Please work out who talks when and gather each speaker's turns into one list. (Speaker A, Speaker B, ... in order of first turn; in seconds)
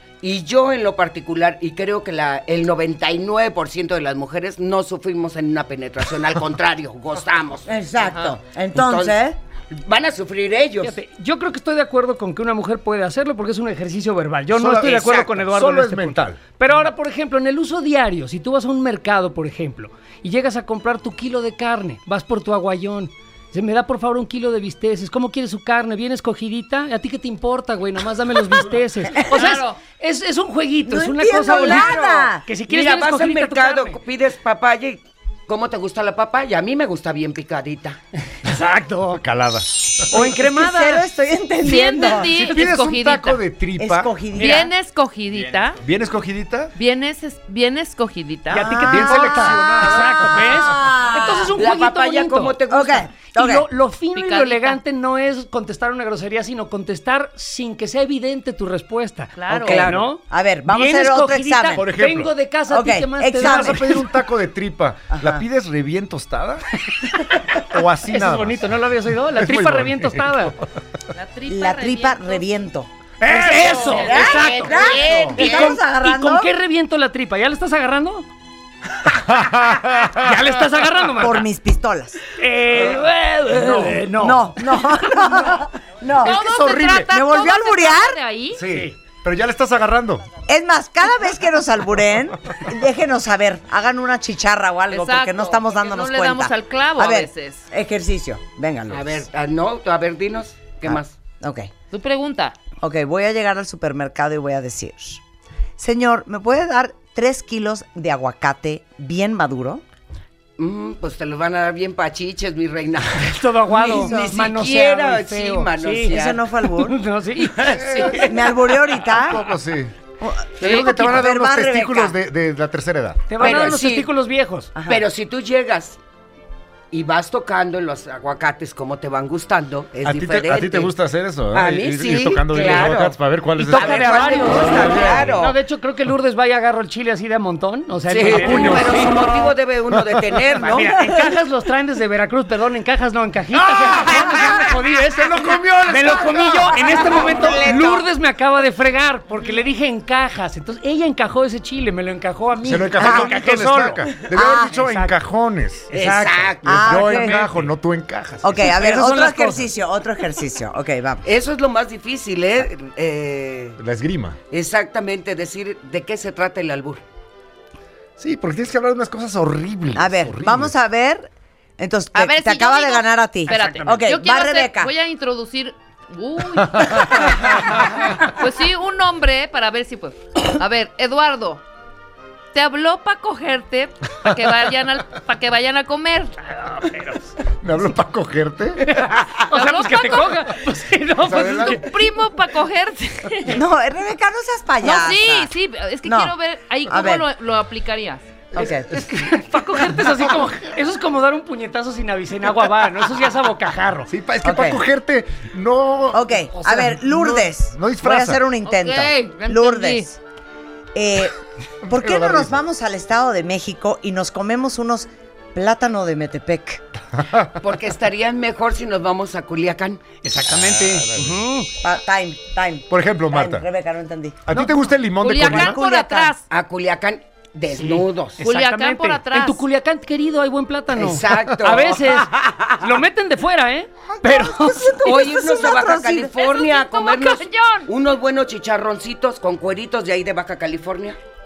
Speaker A: 0.2-7.7, 8.7-11.0, 14.8-15.4, 31.6-38.0, 51.2-53.1, 59.5-60.0, 73.2-75.8, 98.9-101.1, 110.6-116.4, 117.5-118.3, 123.4-124.1, 124.8-126.0, 126.9-130.9, 131.5-135.6, 138.1-140.9, 146.8-148.1, 155.9-156.8, 161.2-163.8, 164.5-167.0, 217.6-220.0, 226.5-228.4, 230.9-232.7, 235.0-241.2
Speaker B: 7.7-9.3, 30.8-32.5, 40.2-42.5, 43.8-44.7, 48.5-51.5, 52.7-53.7, 60.3-61.9, 62.7-63.9, 65.1-65.4, 71.5-72.9, 73.9-76.5, 81.2-82.2, 84.1-86.4, 87.0-88.2, 90.5-99.3, 100.8-101.7, 102.8-105.2, 105.8-109.8, 113.7-114.5, 116.0-117.0, 118.0-119.5, 120.2-122.2, 124.7-125.0, 152.9-153.3, 154.3-154.7, 156.6-157.4, 158.4-161.2, 169.9-174.9, 193.4-196.3, 196.8-197.3, 198.5-198.9, 204.4-204.8, 206.1-210.2, 210.9-216.8, 221.8-224.5, 225.4-226.3, 234.1-236.3
Speaker C: 8.0-8.3, 29.3-29.8, 41.6-43.4, 44.3-45.8, 46.8-48.7, 54.1-54.8, 59.4-59.9, 71.1-72.4, 73.5-74.5, 86.2-88.6, 94.9-97.6, 101.9-102.6, 120.6-120.9, 172.1-181.6, 182.5-186.9, 189.4-190.4, 191.3-193.6, 194.8-198.4, 208.6-210.1, 225.2-226.4, 228.4-229.6, 236.3-237.9
Speaker D: 10.8-34.0, 38.5-39.2, 40.1-41.0, 48.5-52.6, 53.3-64.0, 68.1-70.5, 73.2-74.7, 75.3-78.2, 80.1-81.4, 82.3-84.6, 113.2-118.2, 123.3-124.7, 133.6-139.1, 140.6-155.2, 155.9-157.7, 158.6-159.7, 173.5-174.0, 186.8-187.3, 188.8-192.0, 198.7-204.1, 220.2-221.7, 224.5-224.8, 227.7-235.0
Speaker E: 14.5-16.4, 39.1-40.3, 42.3-44.1, 45.3-46.7, 48.9-50.8, 61.8-62.3, 63.4-66.6, 67.6-68.6, 69.3-70.3, 75.0-75.3, 79.4-80.2, 83.6-84.0, 86.2-87.0, 88.5-90.2, 118.0-118.3, 119.0-120.0, 120.6-123.2, 130.0-135.3, 138.3-139.1, 143.5-147.5, 152.6-155.9, 156.6-158.8, 163.8-164.4, 168.2-170.7, 176.8-177.6, 187.6-188.8, 191.2-191.9, 204.1-208.5, 211.9-212.6, 217.2-217.5, 220.4-221.4, 222.9-223.6, 224.5-225.8